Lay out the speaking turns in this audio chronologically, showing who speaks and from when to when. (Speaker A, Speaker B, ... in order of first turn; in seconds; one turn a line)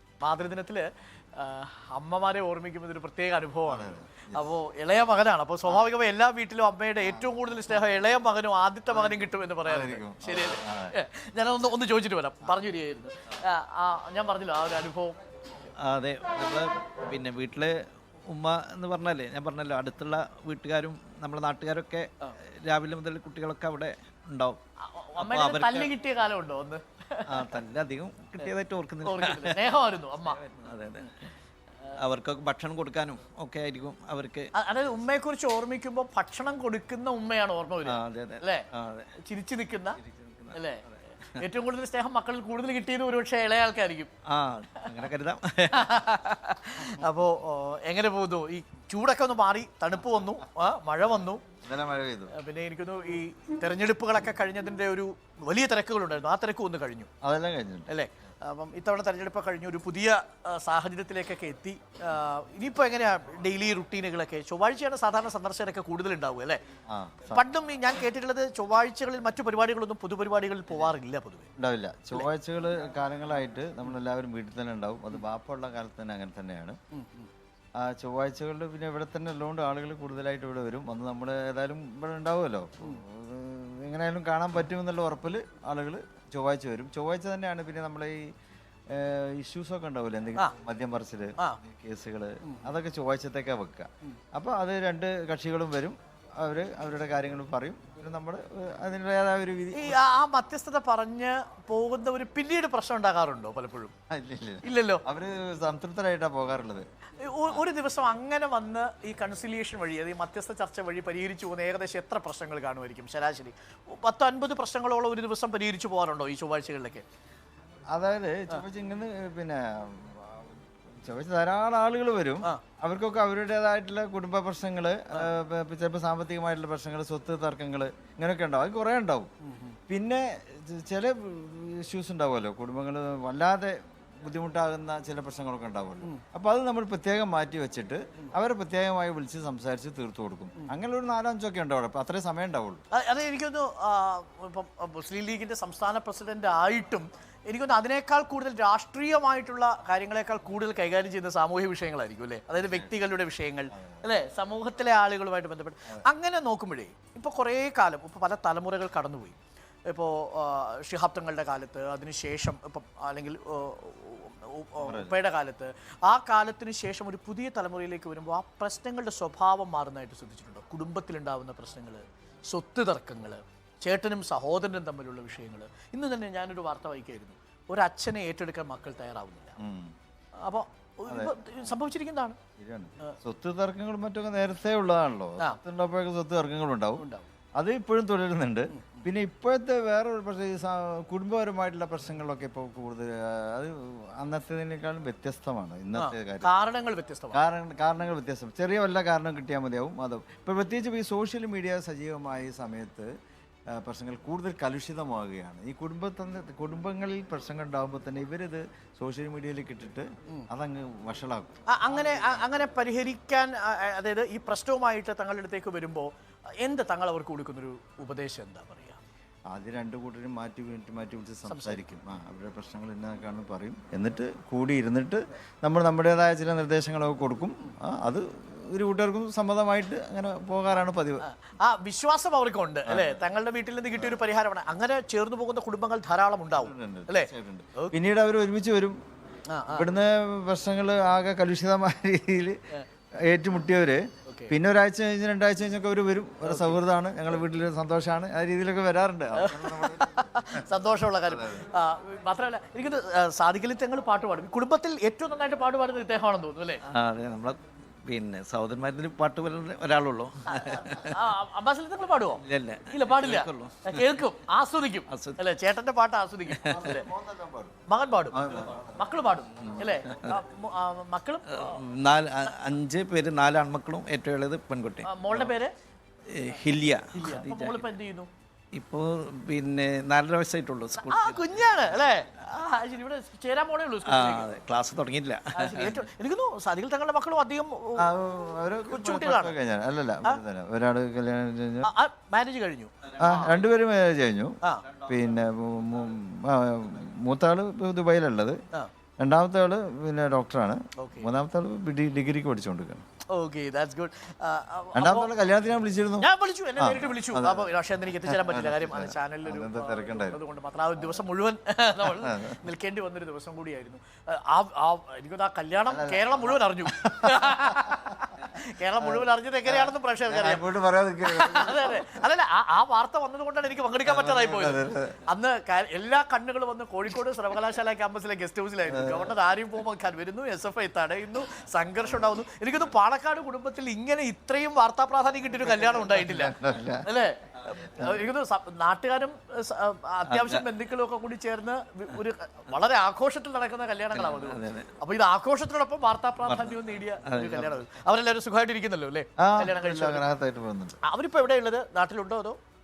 Speaker A: 0.2-15.2
Speaker B: 3.7-4.5
Speaker B: 7.0-7.4
Speaker B: 8.9-10.9
Speaker C: 15.8-17.8
Speaker C: 18.3-24.6
Speaker A: 24.8-27.6
Speaker C: 25.2-25.9
Speaker C: 27.3-29.6
Speaker A: 29.0-30.4
Speaker C: 30.4-31.1
Speaker C: 32.0-34.5
Speaker A: 34.5-40.0
Speaker C: 38.0-39.1
Speaker B: 40.1-40.5
Speaker A: 40.5-44.1
Speaker C: 44.4-45.9
Speaker A: 45.7-51.4
Speaker B: 51.6-52.3
Speaker A: 52.3-57.1
Speaker B: 57.2-57.9
Speaker A: 57.9-66.6
Speaker B: 66.9-67.5
Speaker A: 67.3-71.5
Speaker B: 71.6-76.8
Speaker A: 76.9-77.3
Speaker B: 77.8-88.3
Speaker B: 88.9-100.0
Speaker A: 92.4-92.7
Speaker A: 99.7-103.9
Speaker B: 104.1-106.8
Speaker A: 104.6-105.0
Speaker A: 107.2-117.0
Speaker B: 117.9-129.3
Speaker A: 129.4-129.8
Speaker B: 129.9-142.8
Speaker A: 142.9-159.4
Speaker B: 152.6-152.9
Speaker B: 153.7-154.0
Speaker A: 159.9-179.6
Speaker B: 164.8-165.2
Speaker B: 179.6-179.9
Speaker A: 180.4-182.4
Speaker B: 181.1-181.4
Speaker B: 182.6-187.0
Speaker A: 187.0-187.3
Speaker B: 187.6-196.5
Speaker A: 188.7-189.1
Speaker A: 195.9-197.4
Speaker B: 197.3-203.1
Speaker B: 203.7-212.3
Speaker A: 211.7-216.1
Speaker A: 216.6-219.0
Speaker B: 219.5-231.2
Speaker A: 221.5-221.9
Speaker A: 231.2-237.9
Speaker B: 232.9-233.2
Speaker B: 233.9-234.2
Speaker B: 236.6-239.0
Speaker A: 239.5-239.9
Speaker B: 239.7-242.6
Speaker B: 243.2-251.7
Speaker A: 244.3-244.5
Speaker A: 246.4-246.8
Speaker A: 249.4-256.8
Speaker C: 257.0-257.5
Speaker C: 258.1-260.9
Speaker A: 260.5-267.1
Speaker C: 262.5-264.0
Speaker C: 265.1-265.4
Speaker B: 266.6-267.8
Speaker A: 267.9-271.8
Speaker B: 268.3-270.4
Speaker C: 271.6-275.2
Speaker A: 275.0-275.7
Speaker C: 276.3-277.9
Speaker A: 277.1-278.3
Speaker C: 278.8-281.6
Speaker A: 280.9-284.5
Speaker C: 284.1-286.0
Speaker A: 285.5-288.1
Speaker B: 288.0-291.9
Speaker A: 288.9-289.6
Speaker A: 291.8-293.6
Speaker B: 293.2-294.6
Speaker B: 295.1-298.6
Speaker B: 299.2-303.0
Speaker A: 301.0-301.3
Speaker A: 303.3-305.3
Speaker B: 304.9-310.4
Speaker A: 306.2-320.7
Speaker B: 312.0-312.6
Speaker B: 315.9-318.1
Speaker B: 319.0-322.2
Speaker A: 321.3-350.2
Speaker B: 324.0-325.2
Speaker B: 328.9-329.3
Speaker B: 335.7-337.1
Speaker B: 337.9-338.2
Speaker C: 344.3-344.9
Speaker C: 347.4-347.6
Speaker B: 349.4-351.0
Speaker A: 351.0-352.6